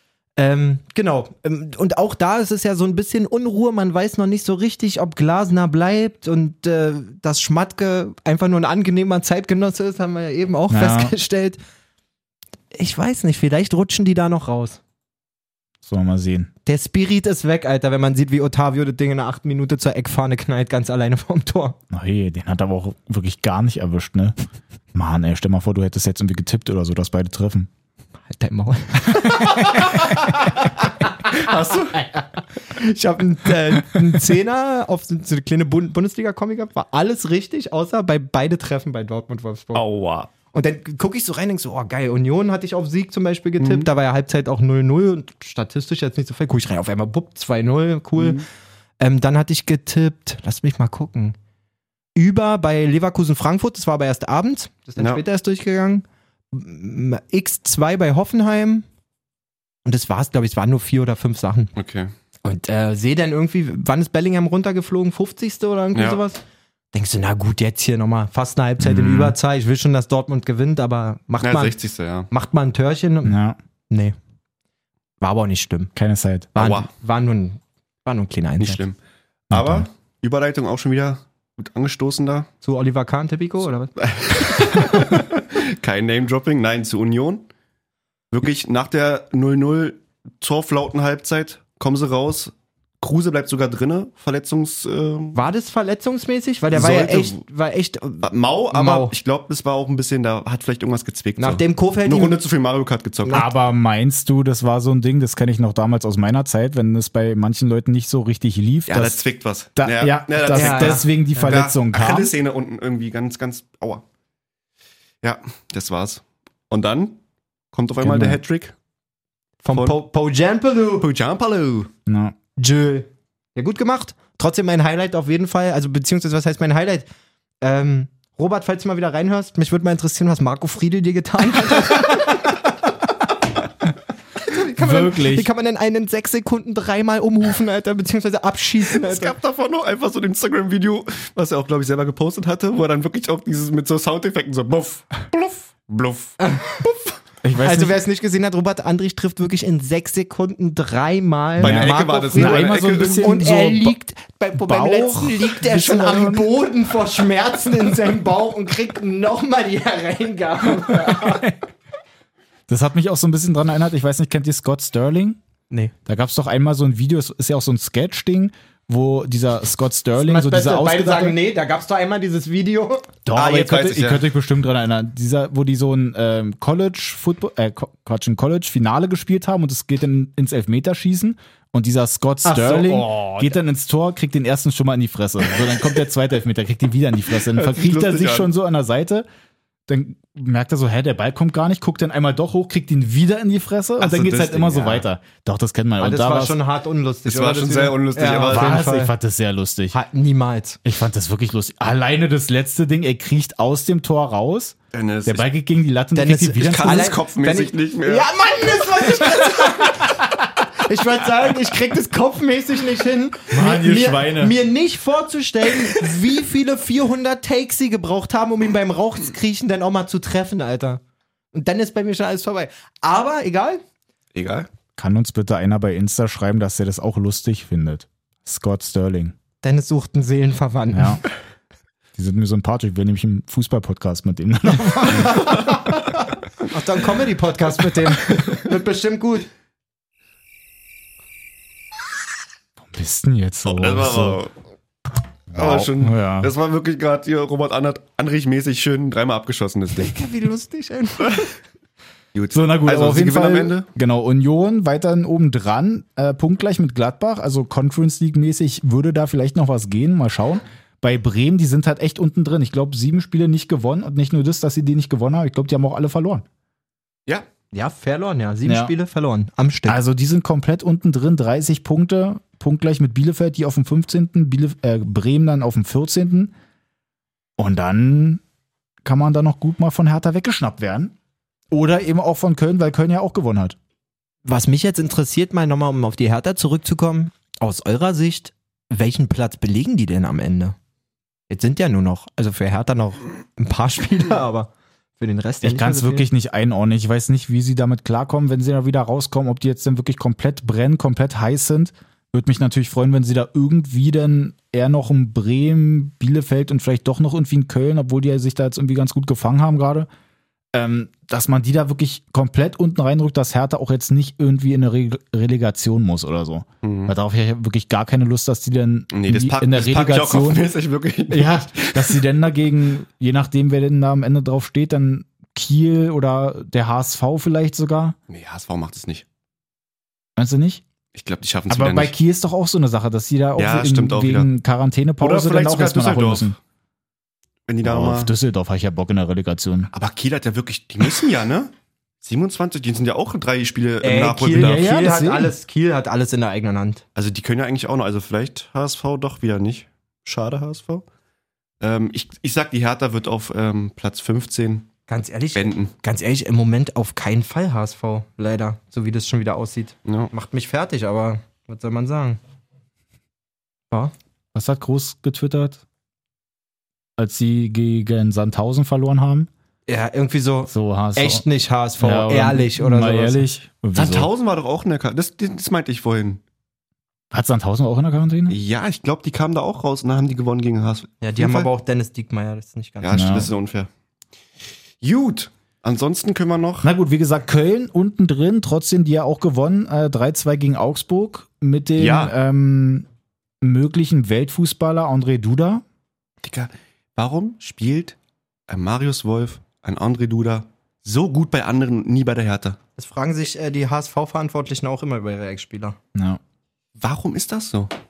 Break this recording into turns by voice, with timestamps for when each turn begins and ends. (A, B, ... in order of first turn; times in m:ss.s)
0:00.4-0:11.6 A
0:10.7-0:11.1 B
0:12.7-0:14.8 A
0:15.8-0:16.5 B
0:16.6-0:21.8 A
0:21.9-0:24.4 B
0:24.9-0:27.7 B
0:28.3-0:30.6 A
0:31.3-0:32.0 C
0:32.2-0:39.8 A
0:39.7-0:40.3 C
0:40.5-0:48.4 A
0:43.6-0:43.9 C
0:48.2-0:48.4 C
0:49.0-0:51.4 A
0:52.2-0:58.9 A
0:59.8-1:01.7 A
1:01.8-1:02.1 C
1:02.4-1:06.4 A
1:05.9-1:06.2 C
1:06.9-1:11.7 A
1:08.8-1:09.4 B
1:11.4-1:12.3 C
1:12.3-1:13.4 A
1:13.2-1:13.6 B
1:13.9-1:14.1 A
1:15.2-1:15.9 A
1:15.9-1:16.5 B
1:16.5-1:18.8 A
1:16.6-1:16.9 C
1:18.6-1:19.0 C
1:19.5-1:22.5 C
1:19.5-1:19.9 B
1:22.6-1:23.9 A
1:24.0-1:27.4 C
1:24.6-1:24.8 A
1:28.3-1:35.4 C
1:35.3-1:39.1 A
1:36.7-1:37.4 C
1:38.2-1:43.4 C
1:41.4-1:42.4 A
1:43.3-1:49.2 B
1:48.9-1:54.0 C
1:49.8-1:52.3 B
1:50.5-1:51.5 A
1:55.2-1:57.2 C
1:57.7-1:58.7 C
1:58.0-1:58.4 B
1:59.6-2:01.1 A
1:59.7-2:00.0 C
2:01.0-2:01.9 C
2:02.1-2:02.4 B
2:02.6-2:07.1 A
2:07.6-2:12.5 A
2:14.4-2:19.4 A
2:14.8-2:15.5 B
2:19.0-2:26.4 C
2:26.4-2:27.0 A
2:27.4-2:28.0 B
2:27.6-2:41.5 A
2:31.6-2:33.3 C
2:31.6-2:34.0 B
2:34.5-2:36.5 B
2:40.9-2:41.5 B
2:42.7-2:45.4 B
2:46.0-2:51.4 B
2:50.2-2:53.1 A
2:53.2-3:09.2 B
2:53.3-2:54.2 C
3:02.4-3:03.6 A
3:07.5-3:08.5 C
3:09.9-3:16.6 B
3:14.0-3:15.0 C
3:16.0-3:19.1 A
3:17.2-3:18.8 C
3:18.5-3:20.0 B
3:19.9-3:20.8 A
3:20.8-3:27.1 B
3:24.9-3:25.5 C
3:26.1-3:41.0 A
3:26.6-3:28.3 C
3:33.5-3:34.5 B
3:41.5-3:43.8 A
3:44.3-3:44.7 C
3:45.0-3:49.4 B
3:49.6-3:51.2 A
3:50.9-3:51.2 B
3:52.2-3:55.5 B
3:55.0-3:55.9 A
3:56.7-3:59.5 A
4:02.8-4:04.4 B
4:03.6-4:04.5 C
4:05.5-4:06.5 B
4:05.5-4:10.2 C
4:10.0-4:11.5 A
4:12.3-4:13.9 C
4:12.5-4:26.4 B
4:27.7-4:30.0 A
4:28.6-4:28.9 B
4:29.9-4:36.5 B
4:37.6-4:38.4 B
4:39.0-4:41.1 B
4:41.7-4:43.8 B
4:44.4-4:50.8 A
4:51.5-4:56.3 A
4:55.6-5:10.1 B
5:10.7-5:20.7 B
5:16.8-5:17.1 C
5:19.1-5:22.2 C
5:21.3-5:28.2 B
5:28.3-5:29.2 C
5:30.4-5:30.8 B
5:31.1-5:32.1 C
5:31.7-5:36.6 B
5:33.6-5:34.5 C
5:35.2-5:36.5 C
5:37.7-5:38.3 C
5:37.8-5:39.9 B
5:39.9-5:41.7 C
5:42.2-5:45.0 C
5:44.0-5:47.0 A
5:44.5-5:45.5 B
5:47.1-5:51.0 C
5:51.8-5:54.9 C
5:55.1-6:02.4 A
5:55.5-5:55.9 C
6:00.1-6:00.3 C
6:04.5-6:05.8 B
6:07.2-6:09.5 B
6:09.9-6:13.4 A
6:10.7-6:11.4 B
6:12.0-6:14.3 B
6:13.9-6:16.4 C
6:17.3-6:18.6 B
6:18.5-6:21.7 C
6:21.2-6:23.4 A
6:23.0-6:23.9 C
6:23.1-6:23.5 B
6:25.0-6:26.9 C
6:26.8-6:33.1 B
6:32.0-6:32.3 C
6:33.6-6:35.8 B
6:36.4-6:38.2 C
6:38.7-6:42.8 C
6:43.0-6:46.0 A
6:46.1-6:46.4 B
6:47.0-6:47.9 C